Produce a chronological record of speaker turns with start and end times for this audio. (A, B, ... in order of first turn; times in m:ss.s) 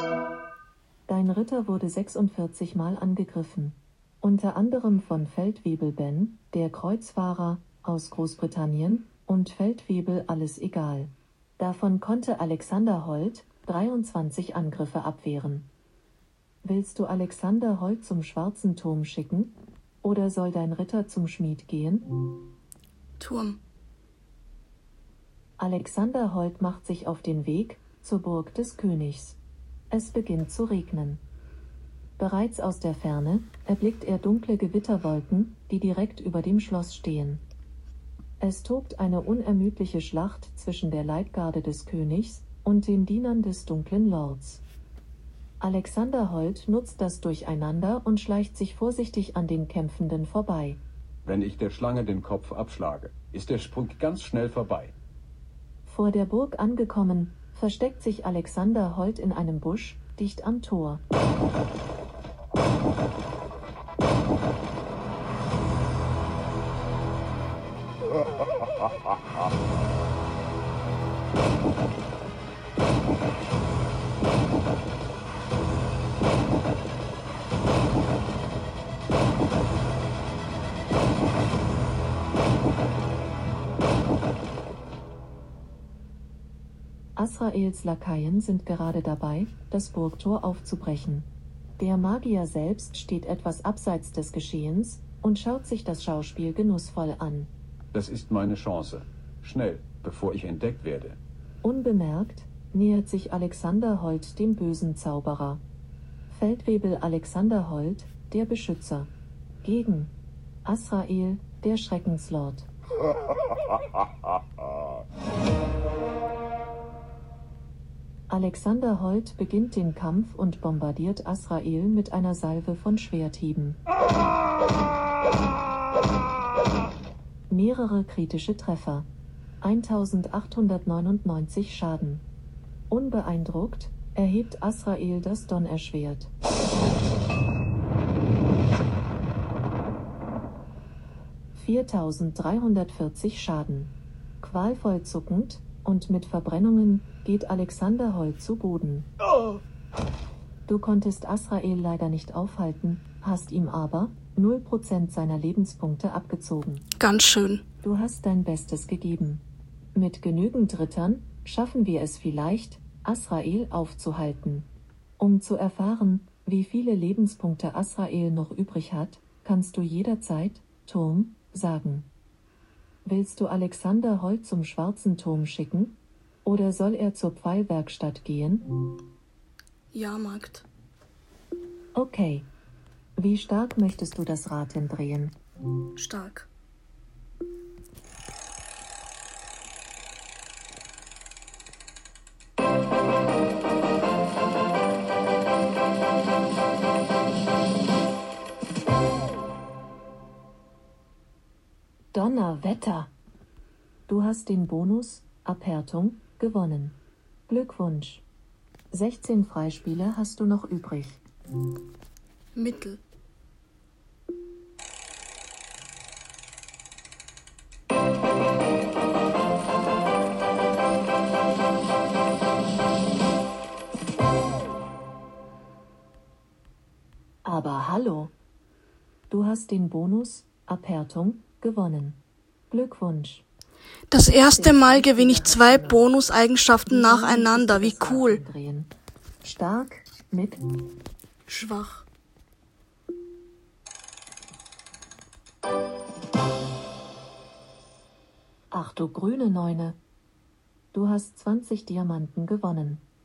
0:01.1-0:15.7 A
0:16.6-0:22.1 A
0:23.2-0:23.6 B
0:25.6-0:29.4 A
0:29.9-0:31.2 A
0:32.2-0:37.4 A
0:38.4-0:44.6 A
0:45.6-0:50.8 A
0:51.2-0:54.9 C
0:55.9-1:01.0 A
1:27.2-1:31.3 A
1:31.8-1:37.5 A
1:37.9-1:41.2 C
1:41.6-1:45.6 A
1:46.3-1:49.1 A
1:49.6-1:50.1 A
1:50.6-1:52.7 A
1:58.3-2:03.8 A
2:07.5-2:09.1 A
2:09.6-2:12.2 A
2:12.9-2:16.3 A
2:21.6-2:29.1 A
2:30.7-2:36.9 A
2:37.0-2:37.6 B
2:37.8-2:39.4 A
2:40.0-2:52.1 A
2:53.0-2:58.7 A
2:59.9-3:00.7 B
3:02.0-3:02.5 A
3:03.2-3:05.4 A
3:06.0-3:06.5 B
3:22.1-3:23.1 A
3:24.1-3:27.0 A
3:27.5-3:28.2 A
3:28.9-3:31.2 A
3:32.6-3:33.0 B
3:47.4-3:48.3 A
3:49.3-3:52.2 A
3:52.7-3:53.4 A
3:54.1-3:58.4 B
3:54.3-3:56.0 A
3:56.9-3:58.9 A
3:59.4-4:00.6 A
4:01.5-4:02.0 B
4:08.7-4:10.0 A
4:10.9-4:13.0 A